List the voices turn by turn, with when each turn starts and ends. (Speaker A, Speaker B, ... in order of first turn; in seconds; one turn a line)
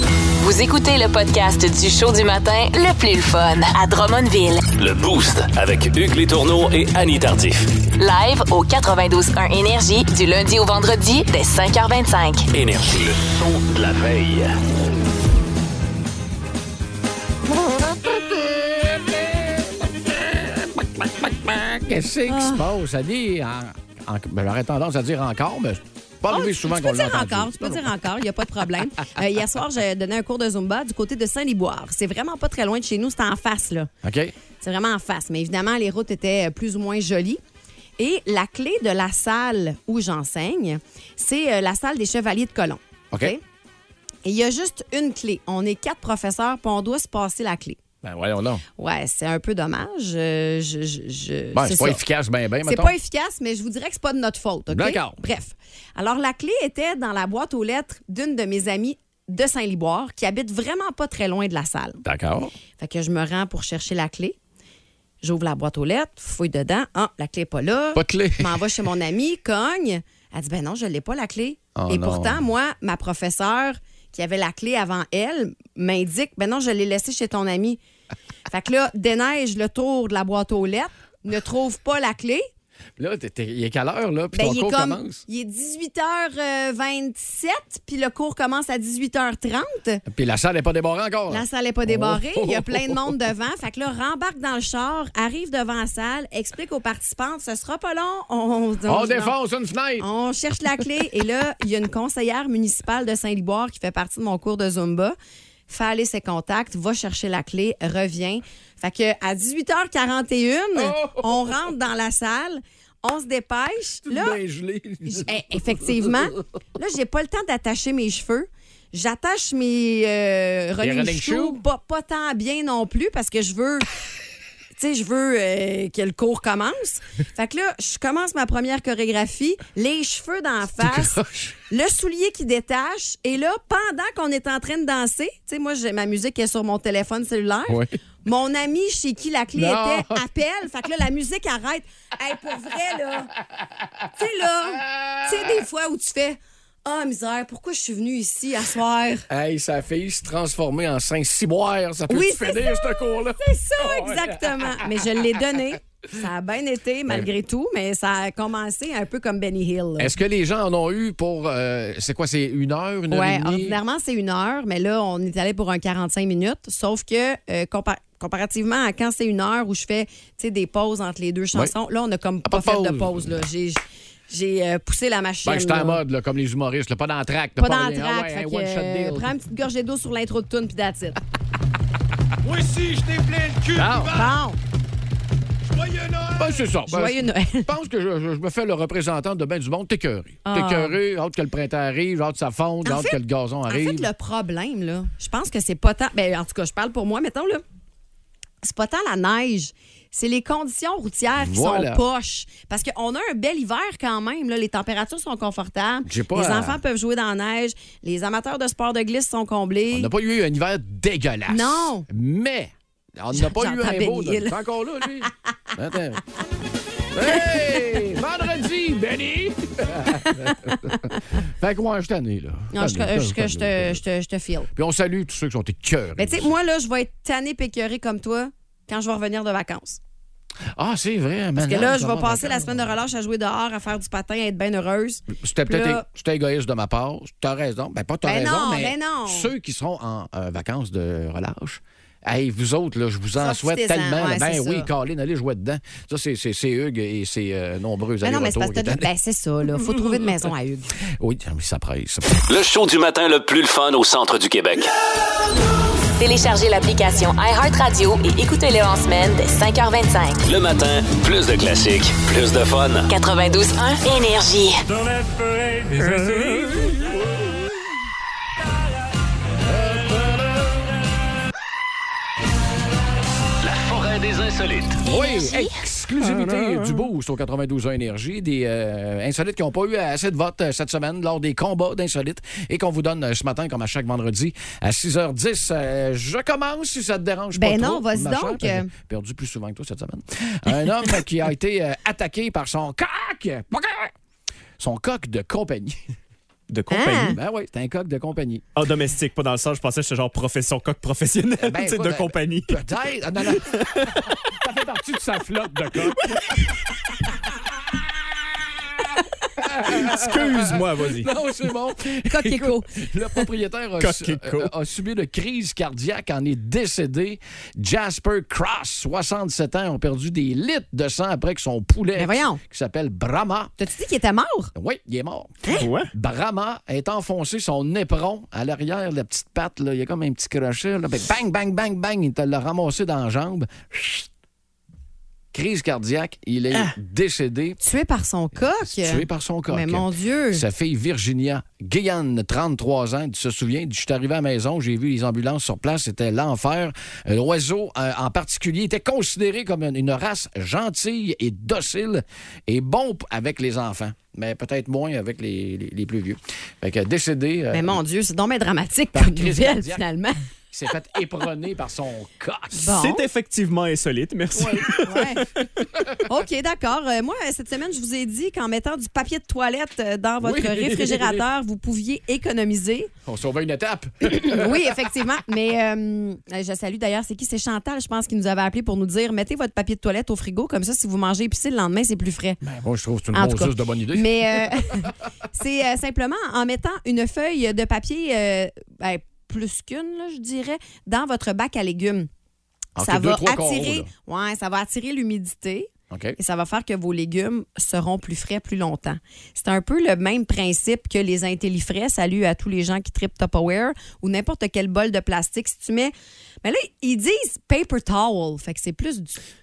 Speaker A: 0.4-4.7
Speaker B: 4.8-7.7
Speaker A: 8.0-12.4
Speaker B: 12.5-14.6
Speaker C: 17.8-27.9
Speaker D: 22.3-22.6
Speaker D: 26.3-33.9
Speaker C: 34.0-34.3
Speaker D: 34.6-37.4
Speaker D: 38.0-43.4
Speaker D: 44.2-47.8
Speaker C: 48.0-48.6
Speaker D: 48.8-52.0
Speaker C: 51.5-52.9
Speaker D: 52.6-62.0
Speaker C: 54.7-55.2
Speaker C: 62.0-62.5
Speaker D: 62.8-64.3
Speaker D: 65.2-77.8
Speaker C: 67.9-68.6
Speaker C: 71.7-72.4
Speaker D: 78.5-82.5
Speaker C: 83.0-85.2
Speaker D: 84.3-90.0
Speaker C: 90.0-93.2
Speaker D: 91.3-99.3
Speaker C: 98.9-100.0
Speaker D: 100.0-105.2
Speaker D: 105.7-114.4
Speaker C: 110.8-111.5
Speaker C: 114.0-116.2
Speaker D: 115.0-123.9
Speaker C: 120.8-121.6
Speaker D: 124.8-131.2
Speaker C: 130.8-131.6
Speaker D: 131.7-143.3
Speaker C: 137.7-137.9
Speaker C: 139.5-140.2
Speaker D: 144.2-149.3
Speaker C: 144.6-145.6
Speaker C: 149.3-155.0
Speaker D: 152.1-160.1
Speaker C: 160.0-163.8
Speaker D: 163.1-176.0
Speaker C: 172.4-173.4
Speaker C: 175.4-179.3
Speaker D: 177.6-181.2
Speaker E: 182.4-184.1
Speaker C: 183.7-184.3
Speaker D: 184.1-184.6
Speaker E: 185.7-186.5
Speaker C: 186.4-194.1
Speaker D: 186.9-187.7
Speaker D: 190.4-191.0
Speaker D: 192.8-193.2
Speaker D: 193.7-197.6
Speaker D: 198.6-210.1
Speaker C: 201.4-202.0
Speaker C: 206.1-206.8
Speaker C: 209.9-216.2
Speaker D: 211.5-212.1
Speaker D: 213.3-214.5
Speaker C: 217.1-224.0
Speaker D: 222.7-224.7
Speaker C: 224.7-226.5
Speaker D: 226.2-230.0
Speaker C: 230.7-232.9
Speaker D: 231.6-236.0
Speaker C: 235.3-249.1
Speaker D: 238.2-239.5
Speaker D: 243.4-244.9
Speaker D: 248.2-250.9
Speaker C: 249.8-250.2
Speaker C: 251.2-252.4
Speaker B: 252.5-254.9
Speaker A: 256.2-260.4
Speaker B: 260.4-263.1
Speaker A: 263.1-264.8
Speaker F: 265.1-266.9
Speaker C: 266.1-266.9
Speaker C: 269.7-270.8
Speaker B: 273.6-275.0
Speaker C: 275.0-294.1
Speaker A: 275.0-275.7
Speaker D: 287.5-288.9
Speaker C: 294.8-296.0
Speaker F: 296.7-297.3
Speaker D: 296.9-297.4
Speaker C: 297.3-298.6
Speaker F: 298.7-302.8
Speaker C: 301.6-306.6
Speaker F: 303.5-304.2
Speaker F: 306.3-306.6
Speaker C: 309.6-323.7
Speaker F: 309.9-311.3
Speaker D: 312.2-313.4
Speaker F: 314.0-314.7
Speaker D: 322.1-322.6
Speaker D: 323.8-324.7
Speaker C: 324.7-334.3
Speaker F: 325.7-326.1
Speaker C: 335.5-337.8
Speaker D: 337.8-340.6
Speaker C: 338.8-358.0
Speaker D: 357.7-360.4
Speaker C: 359.1-360.0
Speaker C: 360.7-362.9
Speaker D: 362.7-363.2
Speaker F: 362.9-365.7
Speaker C: 364.6-364.9
Speaker D: 364.9-365.4
Speaker D: 366.2-373.1
Speaker C: 370.4-371.4
Speaker C: 373.2-375.1
Speaker D: 374.2-382.6
Speaker C: 382.6-384.7
Speaker D: 383.3-392.3
Speaker C: 392.9-394.1
Speaker D: 393.0-409.4
Speaker C: 396.1-396.4